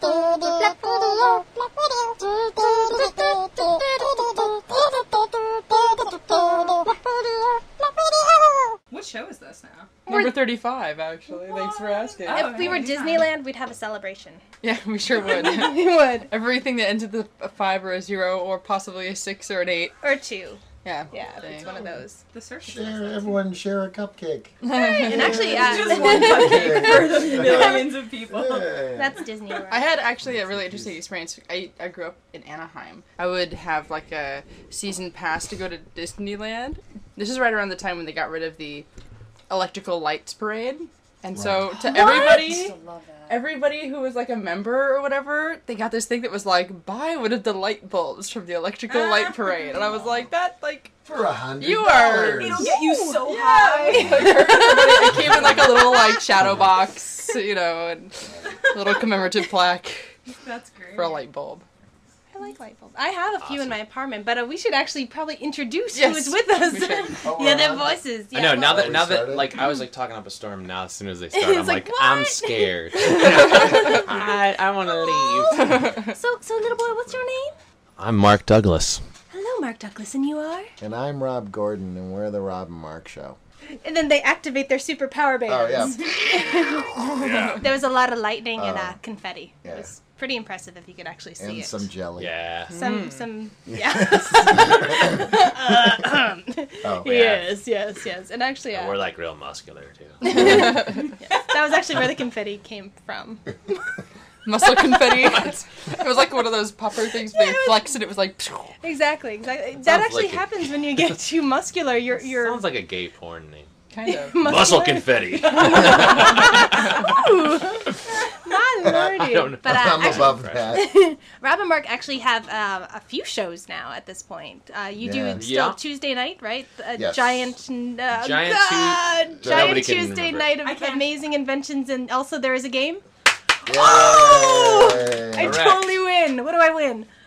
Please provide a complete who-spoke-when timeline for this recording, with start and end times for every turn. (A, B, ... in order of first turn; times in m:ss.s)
0:08.9-0:10.0 A
0:10.1-0:10.3 B
0:10.1-0:12.8 C
0:11.8-0:14.4 B
0:12.2-0:13.3 A
0:14.6-0:19.9 C
0:15.2-0:16.3 B
0:20.0-0:22.2 B
0:20.8-0:21.7 C
0:21.4-0:21.7 A
0:22.2-0:23.4 A
0:22.6-0:24.6 D
0:24.6-0:25.9 C
0:24.7-0:28.0 B
0:24.8-0:28.8 A
0:25.2-0:29.1 D
0:28.9-0:29.9 B
0:29.7-0:38.9 C
0:30.2-0:31.0 D
0:39.5-0:42.7 C
0:41.3-0:41.7 D
0:41.8-0:43.5 A
0:41.8-0:42.7 B
0:43.3-0:50.9 C
0:48.9-0:49.8 B
0:51.0-0:52.7 D
0:51.6-0:52.7 C
0:52.0-0:54.6 A
0:52.6-0:56.6 B
0:53.8-1:00.2 C
0:58.8-0:59.0 B
1:00.3-1:01.2 A
1:00.9-1:01.6 C
1:02.3-1:09.0 B
1:03.4-1:03.7 E
1:05.9-1:07.2 C
1:07.2-1:08.0 D
1:08.3-1:15.9 E
1:08.7-1:09.6 D
1:11.3-1:17.5 B
1:15.8-1:16.0 C
1:18.0-1:19.0 E
1:19.3-1:20.7 B
1:20.8-1:23.4 D
1:23.8-1:31.9 B
1:25.5-1:26.1 D
1:27.0-1:27.7 E
1:28.6-1:29.0 D
1:29.6-1:29.9 D
1:31.4-1:32.3 D
1:32.2-1:32.7 E
1:32.7-1:33.2 C
1:32.7-1:39.0 B
1:33.7-1:35.3 D
1:36.8-1:37.4 D
1:37.1-1:37.4 E
1:38.7-1:40.6 E
1:40.2-1:43.9 B
1:40.4-1:40.7 D
1:40.4-1:41.0 C
1:44.4-1:48.7 C
1:44.6-1:45.5 B
1:47.3-1:47.8 B
1:48.8-1:52.7 B
1:49.8-1:51.1 E
1:52.1-1:53.7 E
1:53.9-1:54.6 C
1:54.0-2:13.0 B
1:54.4-1:57.2 E
1:58.8-2:00.8 D
1:59.1-2:00.8 E
2:05.0-2:05.4 D
2:05.4-2:05.8 E
2:06.9-2:07.5 D
2:08.1-2:10.5 E
2:09.4-2:09.9 D
2:10.6-2:11.1 A
2:13.6-2:15.6 D
2:13.6-2:17.1 B
2:13.7-2:14.6 E
2:15.4-2:16.0 E